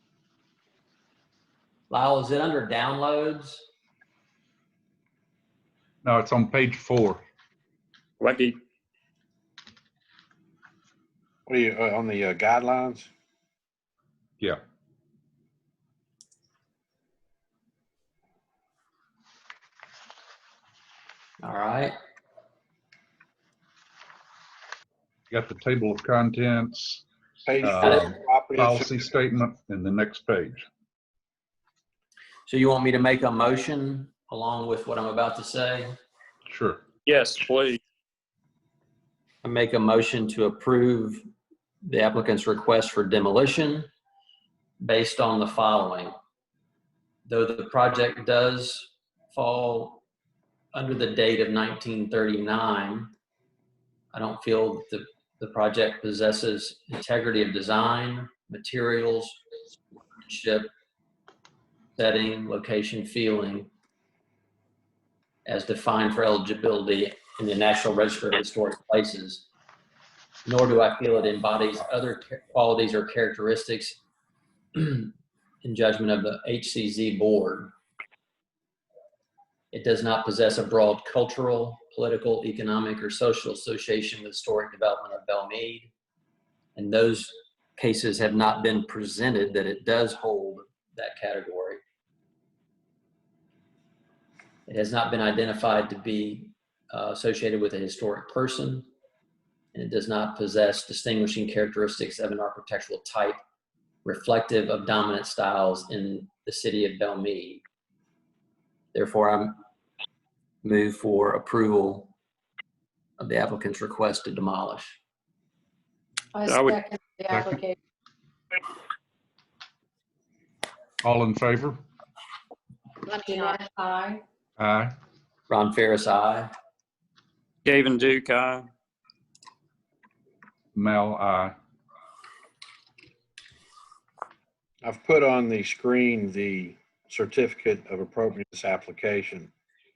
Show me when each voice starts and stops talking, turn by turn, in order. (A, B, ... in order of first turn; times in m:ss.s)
0:01.9-0:03.6 A
0:06.0-0:07.2 B
0:08.2-0:08.6 C
0:11.5-0:13.1 D
0:21.4-0:22.0 A
0:25.3-0:27.0 B
0:27.4-0:29.0 D
0:27.6-0:30.6 B
0:32.5-0:35.9 A
0:36.5-0:36.8 B
0:37.0-0:37.8 C
0:39.4-0:41.2 A
0:41.8-0:43.9 A
0:44.8-0:46.1 A
0:47.3-0:50.0 A
0:50.7-0:53.1 A
0:54.1-0:59.4 A
1:00.2-1:00.7 A
1:02.0-1:03.7 A
1:05.4-1:09.4 A
1:10.4-1:14.0 A
1:14.7-1:17.7 A
1:19.7-1:25.9 A
1:26.8-1:31.8 A
1:34.7-1:38.9 A
1:39.7-1:43.4 A
1:44.0-1:47.6 A
1:48.9-1:49.6 A
1:50.6-1:52.1 A
1:53.2-1:55.0 A
1:56.3-1:57.7 E
1:56.5-1:56.8 C
1:57.3-1:57.6 B
2:01.0-2:01.8 B
2:03.1-2:04.2 E
2:04.6-2:04.9 B
2:05.5-2:06.5 A
2:07.6-2:08.7 C
2:10.7-2:11.5 B
2:14.8-2:19.5 D